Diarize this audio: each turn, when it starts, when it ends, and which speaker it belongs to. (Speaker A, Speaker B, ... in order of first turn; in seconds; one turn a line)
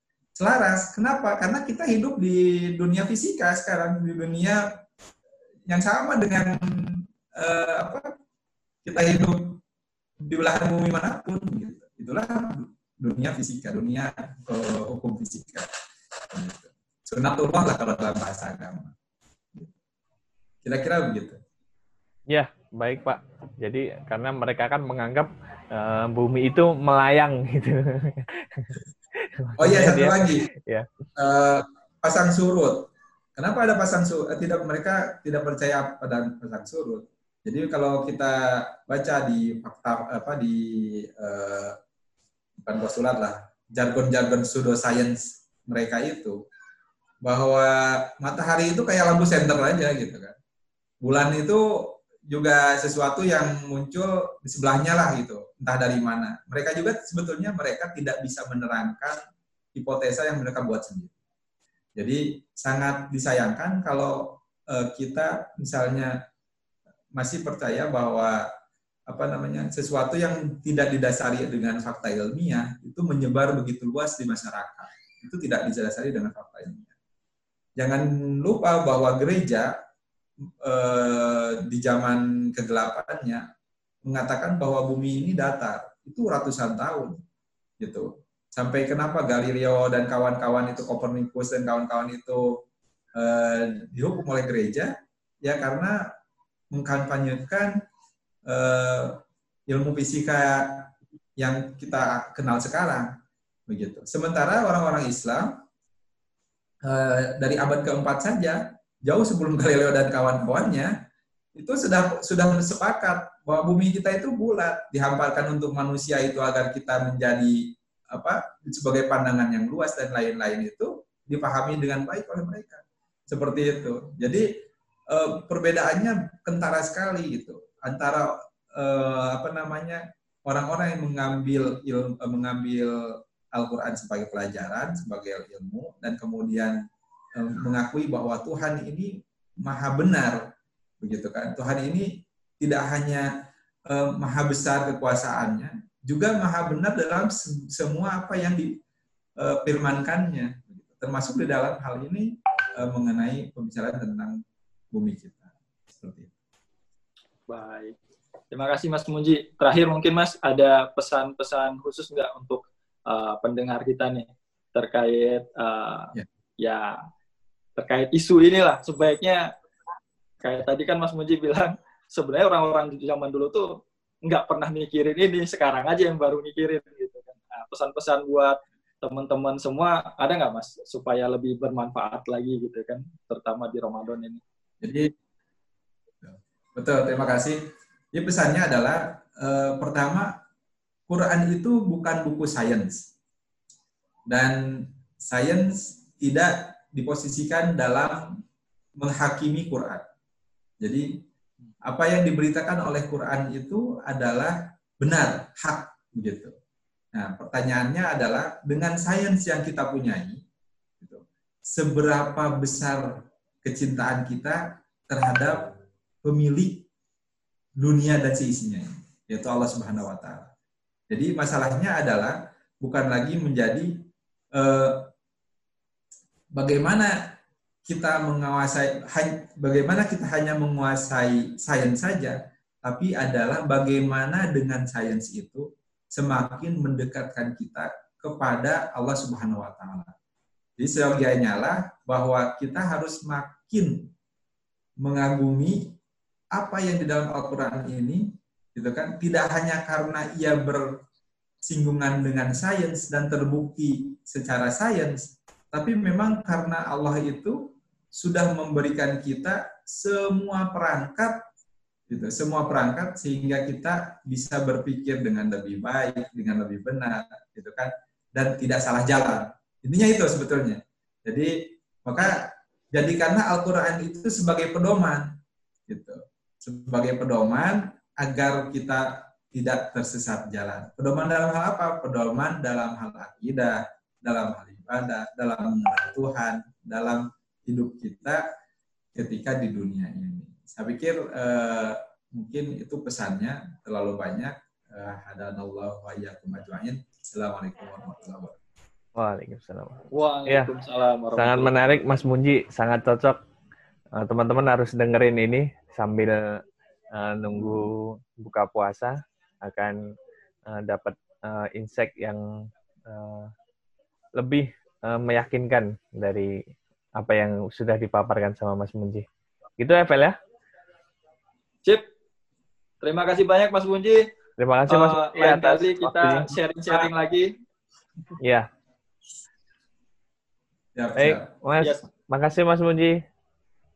Speaker A: 0.3-4.8
Speaker A: 5.7-8.1
Speaker A: 8.8-9.6
Speaker A: 10.2-15.7
Speaker A: 16.3-18.9
Speaker A: 20.6-21.4
Speaker B: 22.3-28.8
Speaker B: 29.4-30.9
Speaker A: 29.6-30.5
Speaker A: 31.1-41.8
Speaker A: 42.6-46.4
Speaker A: 47.2-50.4
Speaker A: 51.0-59.1
Speaker A: 59.7-61.1
Speaker A: 62.0-66.2
Speaker A: 67.2-68.5
Speaker A: 69.1-76.9
Speaker A: 77.8-79.7
Speaker A: 80.6-83.5
Speaker A: 84.0-87.2
Speaker A: 87.8-92.6
Speaker A: 93.2-96.1
Speaker A: 96.7-97.7
Speaker A: 98.5-103.1
Speaker A: 103.7-105.6
Speaker A: 106.8-110.9
Speaker A: 111.5-136.8
Speaker A: 137.3-140.4
Speaker A: 141.0-143.3
Speaker A: 143.9-148.8
Speaker A: 149.4-154.4
Speaker A: 154.9-156.3
Speaker C: 157.5-157.9
Speaker C: 158.5-167.0
Speaker C: 167.8-169.5
Speaker C: 170.4-184.4
Speaker A: 184.8-185.1
Speaker A: 186.2-187.6
Speaker A: 188.1-190.4
Speaker A: 191.1-193.1
Speaker A: 194.3-198.4
Speaker A: 199.0-200.0
Speaker A: 200.8-201.2
Speaker A: 201.8-206.5
Speaker A: 207.1-210.4
Speaker A: 211.0-215.7
Speaker A: 216.2-216.8
Speaker A: 217.8-220.5
Speaker A: 221.1-225.1
Speaker A: 226.5-227.3
Speaker A: 227.8-240.1
Speaker A: 240.8-244.1
Speaker A: 245.0-245.9
Speaker A: 246.5-250.8
Speaker A: 251.6-261.4
Speaker A: 262.1-275.3
Speaker A: 275.9-288.4
Speaker A: 289.1-298.6
Speaker B: 299.1-300.7
Speaker C: 300.1-301.9
Speaker B: 301.3-303.4
Speaker B: 304.1-310.0
Speaker B: 310.6-313.5
Speaker B: 314.4-316.5
Speaker B: 317.2-319.2
Speaker B: 319.8-320.4
Speaker C: 323.0-324.2
Speaker B: 324.6-327.0
Speaker C: 324.9-327.5
Speaker B: 328.4-328.7
Speaker A: 330.9-331.5
Speaker B: 331.2-333.2